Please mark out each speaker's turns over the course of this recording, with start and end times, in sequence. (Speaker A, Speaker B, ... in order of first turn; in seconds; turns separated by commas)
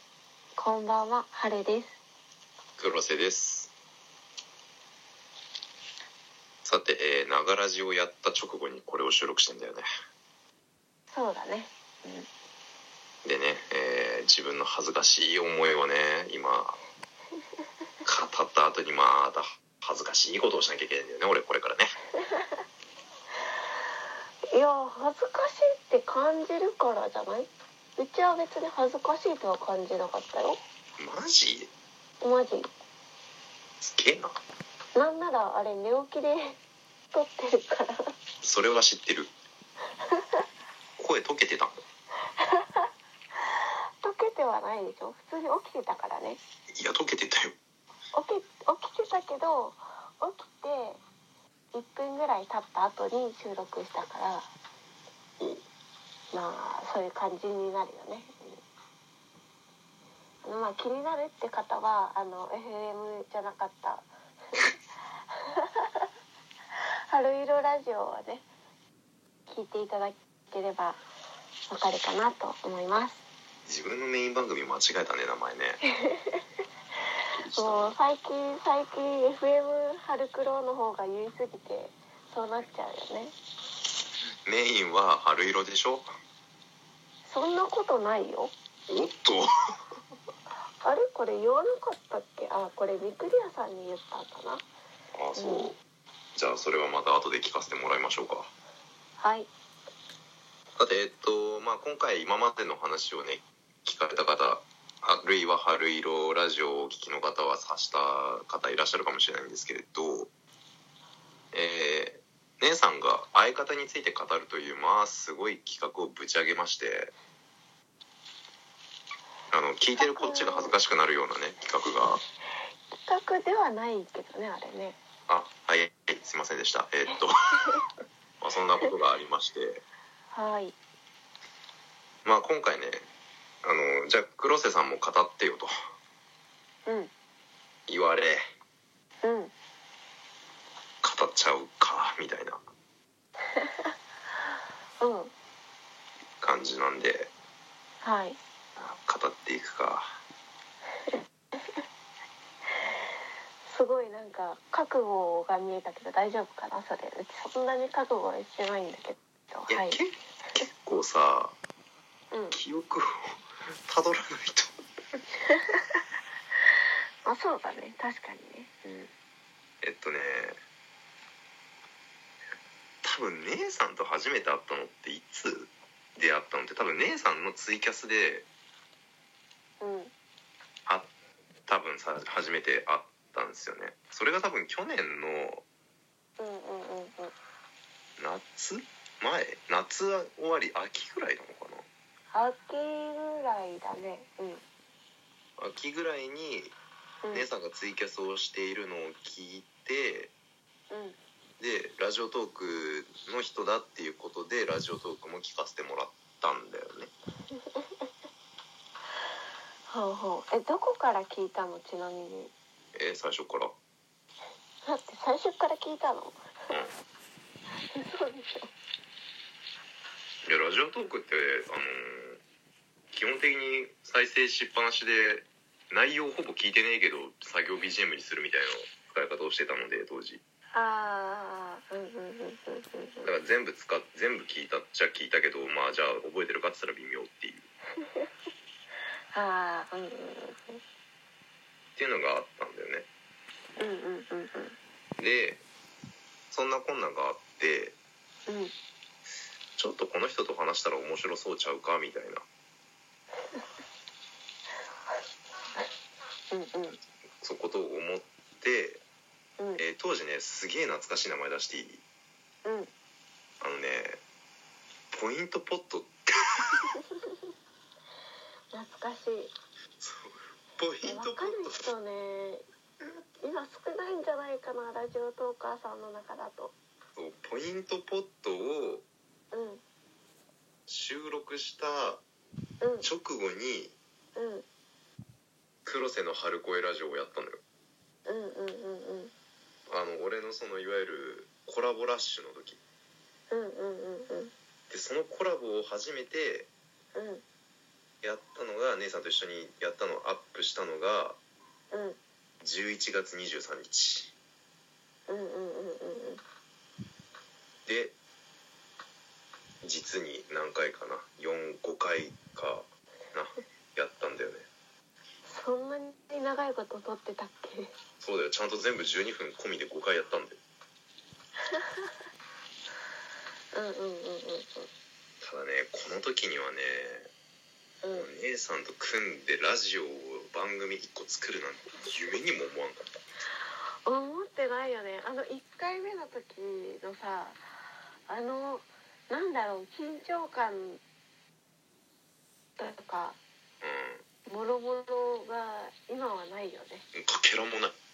Speaker A: 0.5-2.0, Speaker B: 2.8-3.7, Speaker B: 6.6-9.8, Speaker A: 11.1-12.3, Speaker B: 13.2-16.8, Speaker B: 18.0-21.9, Speaker A: 22.2-22.6, Speaker A: 24.5-30.6, Speaker B: 31.0-31.7, Speaker A: 32.2-32.7, Speaker B: 33.8-34.4, Speaker A: 35.0-36.6, Speaker A: 37.1-38.1, Speaker B: 38.4-39.3, Speaker A: 40.0-40.4, Speaker B: 41.0-41.8, Speaker A: 42.4-42.9, Speaker A: 44.0-46.4, Speaker B: 46.8-47.5, Speaker A: 48.1-51.0, Speaker A: 51.7-54.5, Speaker A: 56.3-58.6, Speaker A: 60.4-64.8, Speaker A: 65.3-66.0, Speaker A: 67.1-68.5, Speaker A: 69.5-71.0, Speaker A: 71.7-73.2, Speaker B: 73.7-75.8, Speaker A: 75.8-76.4, Speaker B: 77.4-78.0, Speaker A: 77.5-83.3, Speaker B: 84.5-86.1, Speaker A: 87.2-88.5, Speaker B: 88.9-89.5, Speaker A: 90.8-94.6, Speaker B: 95.1-95.8, Speaker A: 95.3-95.7, Speaker B: 96.3-98.5, Speaker A: 99.2-99.5, Speaker B: 100.8-110.3, Speaker B: 111.5-117.1, Speaker B: 119.5-122.2, Speaker A: 120.0-120.7, Speaker A: 123.0-125.0, Speaker B: 125.3-127.8, Speaker B: 128.4-129.8, Speaker A: 130.3-130.7, Speaker B: 132.2-133.1, Speaker B: 133.6-135.7, Speaker A: 136.8-137.1, Speaker B: 137.9-138.4, Speaker A: 139.2-139.5, Speaker B: 141.0-142.6, Speaker A: 143.6-143.9, Speaker A: 145.0-145.3, Speaker B: 146.4-147.3, Speaker A: 148.0-148.4, Speaker B: 148.8-150.2, Speaker A: 153.7-160.0, Speaker B: 159.7-161.6, Speaker A: 162.3-162.6, Speaker B: 162.5-164.7, Speaker A: 165.5-166.0, Speaker A: 167.2-169.1, Speaker B: 169.8-170.6, Speaker B: 173.0-178.4, Speaker A: 179.8-180.1, Speaker B: 181.7-185.6, Speaker A: 186.4-187.3, Speaker B: 188.2-191.9, Speaker A: 192.3-194.6, Speaker B: 195.6-196.7, Speaker A: 197.2-197.5, Speaker B: 197.3-200.3, Speaker A: 200.9-201.2, Speaker B: 201.6-207.1, Speaker A: 207.6-207.9, Speaker A: 209.9-212.5, Speaker B: 212.9-213.7, Speaker A: 214.8-216.4, Speaker A: 217.9-218.7, Speaker B: 220.4-222.4, Speaker B: 223.1-230.4, Speaker A: 230.7-233.3, Speaker B: 233.2-237.7, Speaker A: 238.0-238.3, Speaker A: 239.3-240.8, Speaker B: 242.0-243.1, Speaker A: 243.8-244.8, Speaker B: 245.2-245.6, Speaker B: 246.5-247.9, Speaker A: 248.5-248.7, Speaker B: 249.8-252.4, Speaker A: 256.5-257.0, Speaker B: 257.4-259.0, Speaker B: 259.8-262.0, Speaker A: 262.6-262.9, Speaker B: 263.6-264.2, Speaker B: 265.1-266.9, Speaker A: 268.7-269.5, Speaker B: 270.0-271.9, Speaker A: 271.1-272.6, Speaker A: 273.4-276.7, Speaker B: 277.1-279.1, Speaker A: 279.5-279.8, Speaker B: 280.9-282.2, Speaker A: 282.8-283.1, Speaker B: 283.0-283.9, Speaker A: 284.3-284.6, Speaker B: 285.8-287.6, Speaker A: 288.2-289.3, Speaker B: 289.9-292.8, Speaker A: 293.5-294.5, Speaker B: 294.9-296.7, Speaker A: 297.1-297.4, Speaker B: 298.2-301.4, Speaker A: 301.9-302.2, Speaker B: 302.6-304.3, Speaker A: 305.3-306.4, Speaker B: 307.9-308.1, Speaker B: 309.8-314.6, Speaker A: 315.4-317.9, Speaker B: 318.2-320.6, Speaker A: 321.7-322.1, Speaker A: 323.7-324.9, Speaker B: 325.4-327.3, Speaker A: 328.0-328.3, Speaker B: 328.1-333.2, Speaker A: 334.0-337.6, Speaker A: 338.3-341.0, Speaker A: 342.8-343.4, Speaker B: 343.8-344.2, Speaker A: 344.5-347.1, Speaker B: 347.1-347.9